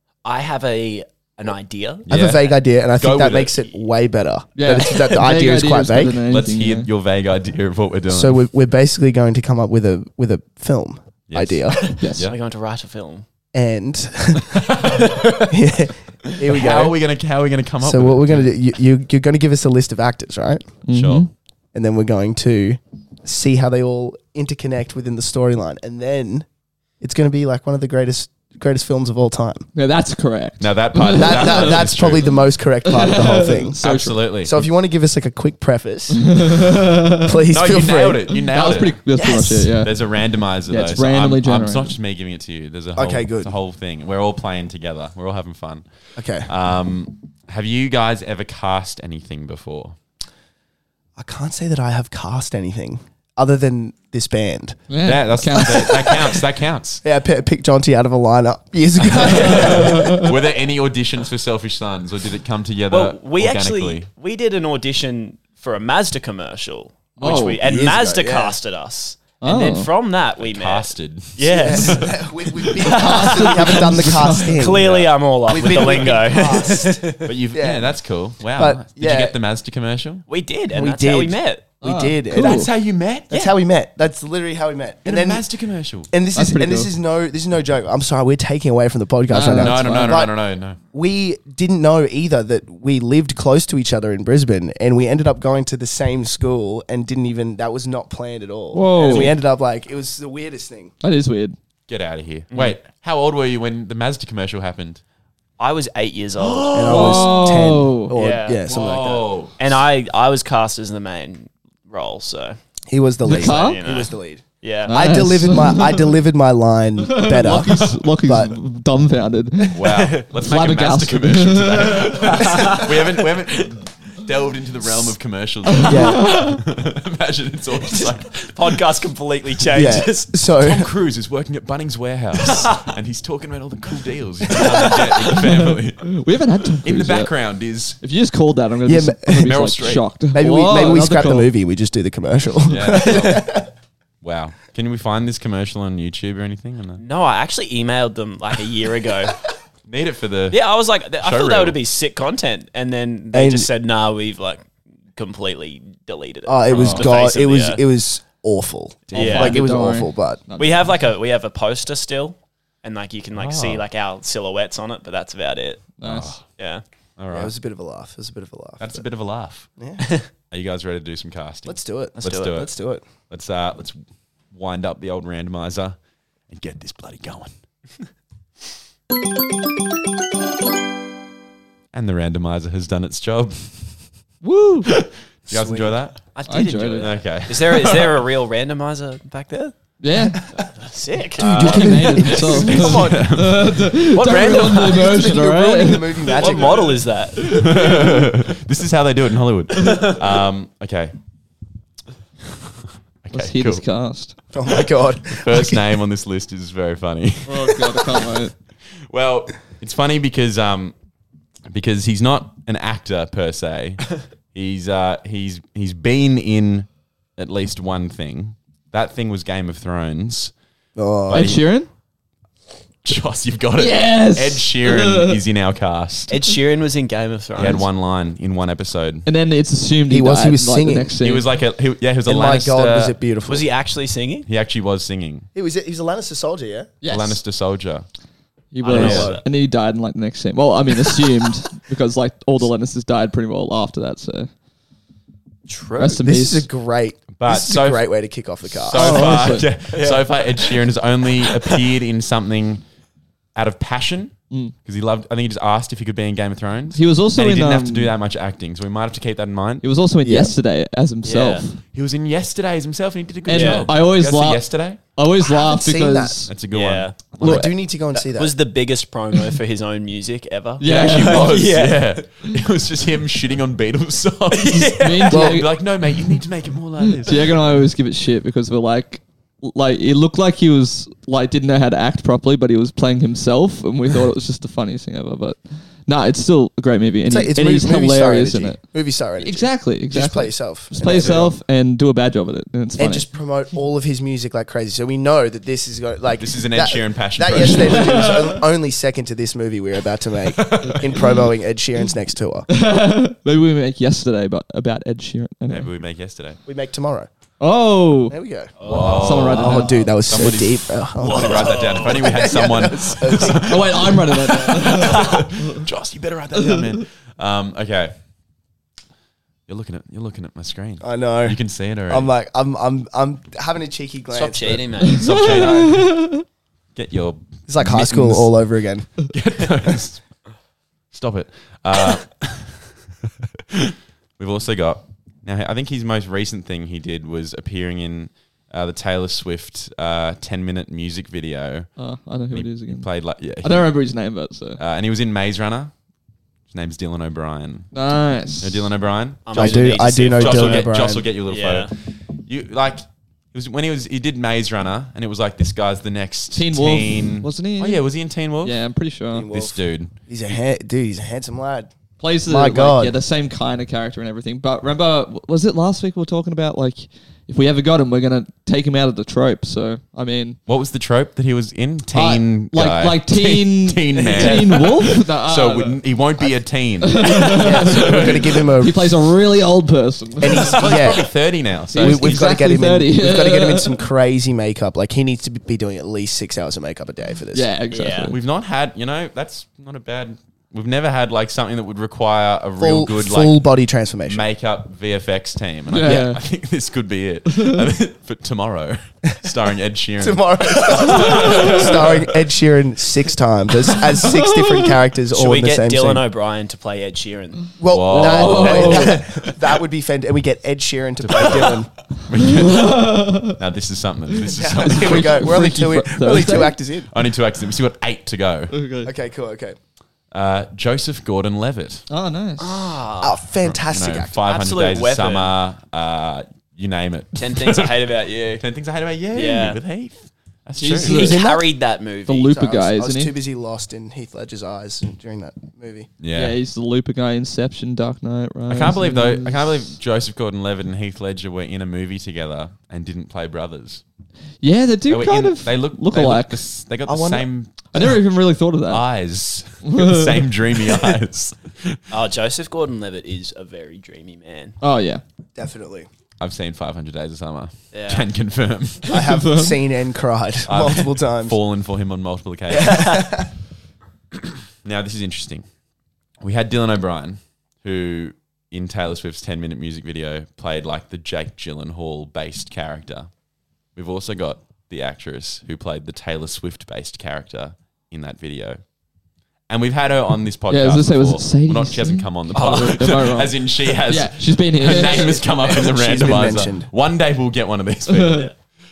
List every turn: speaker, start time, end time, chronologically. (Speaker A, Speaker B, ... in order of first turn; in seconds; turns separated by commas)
Speaker A: 0.2-2.1, Speaker B: 2.1-3.7, Speaker C: 2.1-6.2, Speaker D: 4.6-6.9, Speaker B: 6.3-8.4, Speaker C: 8.1-12.0, Speaker B: 11.3-12.4, Speaker A: 11.8-13.3, Speaker D: 12.0-12.3, Speaker C: 13.5-14.8, Speaker B: 14.6-15.2, Speaker A: 14.8-15.6, Speaker C: 15.4-17.0, Speaker B: 16.4-18.5, Speaker C: 17.8-20.7, Speaker D: 20.9-21.3, Speaker B: 20.9-21.3, Speaker C: 21.7-26.5, Speaker C: 27.0-29.6, Speaker D: 29.8-31.9, Speaker B: 30.6-32.4, Speaker C: 31.1-33.8, Speaker D: 32.8-34.2, Speaker B: 33.8-34.6, Speaker C: 34.4-38.3, Speaker D: 36.1-37.4, Speaker B: 37.5-39.0, Speaker D: 38.5-40.1, Speaker C: 39.1-39.7, Speaker B: 39.8-45.9, Speaker D: 40.7-42.0, Speaker C: 43.0-43.5, Speaker C: 46.2-46.5, Speaker B: 46.5-50.0, Speaker C: 51.2-54.8, Speaker D: 54.9-56.0, Speaker B: 55.0-57.0, Speaker C: 55.8-56.4, Speaker C: 57.0-60.4, Speaker B: 59.1-64.1, Speaker A: 59.2-59.6, Speaker D: 59.6-60.2, Speaker A: 62.9-77.3, Speaker D: 67.2-67.6, Speaker C: 67.2-68.6, Speaker D: 69.4-69.9, Speaker B: 70.4-72.1, Speaker C: 71.5-78.0, Speaker D: 73.0-74.6, Speaker B: 74.8-76.6, Speaker B: 77.2-80.2, Speaker C: 78.6-79.4, Speaker A: 80.3-81.7, Speaker C: 80.7-82.7, Speaker D: 81.8-82.7, Speaker B: 82.3-83.5, Speaker C: 83.3-85.5, Speaker B: 85.0-86.1, Speaker C: 86.1-90.4, Speaker D: 86.3-86.9, Speaker D: 89.3-90.2, Speaker B: 89.5-90.8, Speaker C: 90.9-100.9, Speaker D: 98.7-99.4, Speaker D: 101.0-101.6, Speaker B: 101.9-105.0, Speaker A: 105.6-107.2, Speaker B: 106.4-107.3, Speaker C: 106.7-109.3, Speaker D: 106.9-108.1, Speaker A: 108.1-108.6, Speaker B: 108.7-109.7, Speaker A: 109.6-112.6, Speaker C: 112.9-118.6, Speaker D: 113.2-113.8, Speaker A: 113.3-115.0, Speaker D: 114.9-116.2, Speaker D: 117.0-122.3, Speaker B: 117.7-118.0, Speaker B: 119.7-128.8, Speaker A: 119.8-120.2, Speaker A: 122.2-123.3, Speaker D: 125.7-126.6, Speaker C: 125.8-126.3, Speaker A: 127.8-130.3, Speaker C: 129.7-130.9, Speaker B: 130.6-136.2, Speaker A: 132.5-132.8, Speaker D: 135.2-137.3, Speaker B: 136.8-138.0, Speaker D: 138.0-141.5, Speaker C: 138.8-139.5, Speaker B: 139.3-140.1, Speaker C: 140.3-143.7, Speaker B: 142.7-143.7, Speaker B: 144.2-147.0, Speaker A: 147.0-149.5, Speaker B: 149.9-150.7, Speaker A: 150.5-157.8, Speaker B: 151.2-151.8, Speaker C: 153.3-153.7, Speaker C: 156.5-160.4, Speaker B: 156.7-157.1, Speaker B: 159.1-159.4, Speaker A: 159.1-159.6, Speaker D: 159.1-160.9, Speaker A: 160.6-165.9, Speaker B: 163.3-163.8, Speaker D: 166.0-166.4, Speaker B: 166.0-166.4, Speaker A: 166.6-166.8, Speaker B: 167.2-167.5, Speaker C: 167.3-169.0, Speaker B: 168.8-169.7, Speaker C: 169.8-170.1, Speaker A: 170.0-170.3, Speaker B: 170.5-172.7, Speaker C: 171.7-173.0, Speaker A: 172.2-172.6, Speaker B: 173.3-174.0, Speaker B: 174.5-176.0, Speaker B: 176.5-177.5, Speaker B: 181.9-184.0, Speaker D: 184.4-184.9, Speaker B: 184.9-186.2, Speaker C: 185.5-186.0, Speaker A: 186.3-189.8, Speaker D: 186.5-187.1, Speaker B: 187.0-188.2, Speaker D: 190.0-190.4, Speaker A: 190.5-192.2, Speaker C: 191.4-193.4, Speaker B: 191.4-194.0, Speaker D: 191.4-196.4, Speaker A: 194.1-195.3, Speaker C: 194.2-197.0, Speaker A: 196.3-197.9, Speaker B: 196.4-201.1, Speaker D: 197.5-198.1, Speaker D: 199.8-200.1, Speaker B: 203.2-203.8, Speaker D: 203.3-204.4, Speaker C: 204.5-205.8, Speaker B: 205.3-208.2, Speaker D: 207.5-208.5, Speaker B: 209.1-210.9, Speaker B: 211.7-220.5, Speaker C: 221.0-221.5, Speaker B: 221.3-221.7, Speaker D: 221.3-221.9, Speaker B: 223.0-226.4, Speaker D: 223.8-225.4, Speaker A: 226.3-227.9, Speaker B: 227.6-229.3, Speaker D: 229.2-231.5, Speaker C: 230.1-231.1, Speaker B: 231.2-233.2, Speaker C: 232.3-233.7, Speaker A: 233.5-234.5, Speaker B: 234.5-235.5, Speaker C: 235.6-236.9, Speaker D: 237.0-237.4, Speaker B: 237.1-238.1, Speaker D: 238.7-244.5, Speaker A: 238.8-239.5, Speaker B: 238.9-239.3, Speaker C: 239.0-239.3, Speaker A: 245.7-246.2, Speaker D: 246.0-246.7, Speaker C: 246.0-249.3, Speaker B: 247.3-248.1, Speaker B: 248.7-252.8, Speaker D: 248.9-249.7, Speaker A: 249.9-250.8, Speaker A: 251.4-251.8, Speaker B: 253.6-259.9, Speaker D: 256.9-258.1, Speaker D: 259.8-261.8, Speaker C: 260.2-260.5, Speaker A: 261.2-261.6, Speaker B: 261.9-265.0, Speaker D: 263.5-266.5, Speaker A: 263.5-263.9, Speaker C: 265.5-266.5, Speaker B: 266.5-267.6, Speaker A: 266.7-267.2, Speaker C: 267.4-268.6, Speaker D: 267.4-267.7, Speaker A: 268.1-272.2, Speaker D: 270.8-271.7, Speaker B: 270.8-277.6, Speaker A: 274.5-275.6, Speaker D: 275.0-275.7, Speaker C: 275.3-275.6, Speaker D: 277.0-288.8, Speaker C: 287.3-291.6, Speaker D: 289.4-293.3, Speaker C: 293.0-302.7, Speaker B: 296.4-298.3, Speaker D: 297.6-298.6, Speaker B: 300.5-301.2, Speaker D: 302.7-305.9, Speaker B: 305.7-306.6, Speaker C: 306.7-307.3, Speaker D: 307.6-308.4, Speaker C: 308.3-308.7, Speaker A: 308.8-309.6, Speaker B: 308.8-318.1, Speaker D: 309.1-310.2, Speaker C: 309.3-314.1, Speaker A: 311.2-312.3, Speaker D: 313.5-315.8, Speaker A: 315.0-315.4, Speaker D: 316.6-317.0, Speaker B: 319.7-322.3, Speaker C: 321.0-324.8, Speaker A: 324.3-325.8, Speaker B: 324.7-326.1, Speaker D: 325.0-326.4, Speaker C: 325.5-326.0, Speaker B: 327.0-328.5, Speaker C: 327.7-329.1, Speaker B: 329.2-330.2, Speaker B: 331.1-332.9, Speaker B: 333.7-341.9, Speaker D: 342.0-343.1, Speaker B: 342.5-343.9, Speaker D: 343.6-344.8, Speaker B: 344.8-345.9, Speaker B: 346.7-347.9, Speaker D: 347.9-348.9, Speaker B: 348.6-353.0, Speaker A: 349.5-350.9, Speaker C: 349.5-351.3, Speaker A: 351.5-351.9, Speaker B: 353.5-358.8, Speaker D: 356.5-358.0, Speaker D: 358.6-359.5, Speaker C: 359.3-359.8, Speaker B: 359.5-360.2, Speaker C: 360.3-361.9, Speaker D: 362.2-370.6, Speaker C: 362.5-363.2, Speaker B: 370.7-378.7, Speaker D: 372.1-376.0, Speaker D: 377.0-380.8, Speaker C: 377.5-379.2, Speaker C: 380.4-381.3, Speaker B: 380.5-382.4, Speaker A: 380.9-381.2, Speaker D: 381.9-384.1, Speaker C: 382.0-387.7, Speaker D: 387.5-388.4, Speaker A: 387.9-388.3, Speaker B: 388.3-393.6, Speaker C: 392.8-394.4, Speaker B: 394.3-402.2, Speaker D: 395.9-396.4, Speaker D: 397.5-397.8, Speaker C: 400.2-406.3, Speaker D: 401.4-401.7, Speaker D: 404.2-404.9, Speaker A: 405.3-407.7, Speaker C: 407.8-411.9, Speaker B: 407.9-409.2, Speaker D: 408.1-409.2, Speaker B: 411.2-415.6, Speaker D: 412.4-413.6, Speaker C: 414.5-417.1, Speaker D: 414.8-416.8, Speaker B: 417.1-418.8, Speaker D: 418.7-419.1, Speaker C: 419.0-419.8, Speaker B: 420.3-422.1, Speaker D: 422.1-423.0, Speaker A: 422.6-423.4, Speaker C: 423.2-424.4, Speaker B: 423.6-431.4, Speaker A: 424.4-425.5, Speaker A: 427.4-428.6, Speaker A: 429.3-429.8, Speaker D: 430.8-431.4, Speaker C: 431.1-431.7, Speaker A: 431.1-432.6, Speaker D: 432.3-433.3, Speaker C: 432.5-436.1, Speaker B: 436.2-436.6, Speaker D: 436.3-439.6, Speaker B: 438.7-444.0, Speaker D: 444.6-446.6, Speaker B: 445.1-448.2, Speaker C: 447.1-447.5, Speaker D: 447.9-449.0, Speaker B: 448.9-452.0, Speaker D: 449.8-450.5, Speaker A: 452.1-454.8, Speaker D: 454.8-455.2, Speaker C: 455.6-456.1, Speaker B: 456.4-459.1, Speaker A: 457.9-458.3, Speaker C: 459.1-461.6, Speaker D: 459.1-459.8, Speaker B: 460.7-463.3, Speaker C: 462.7-463.5, Speaker B: 464.8-465.6, Speaker B: 466.4-473.3, Speaker B: 473.9-478.8, Speaker B: 479.7-488.5, Speaker D: 480.7-485.4, Speaker C: 485.7-486.9, Speaker D: 488.1-488.5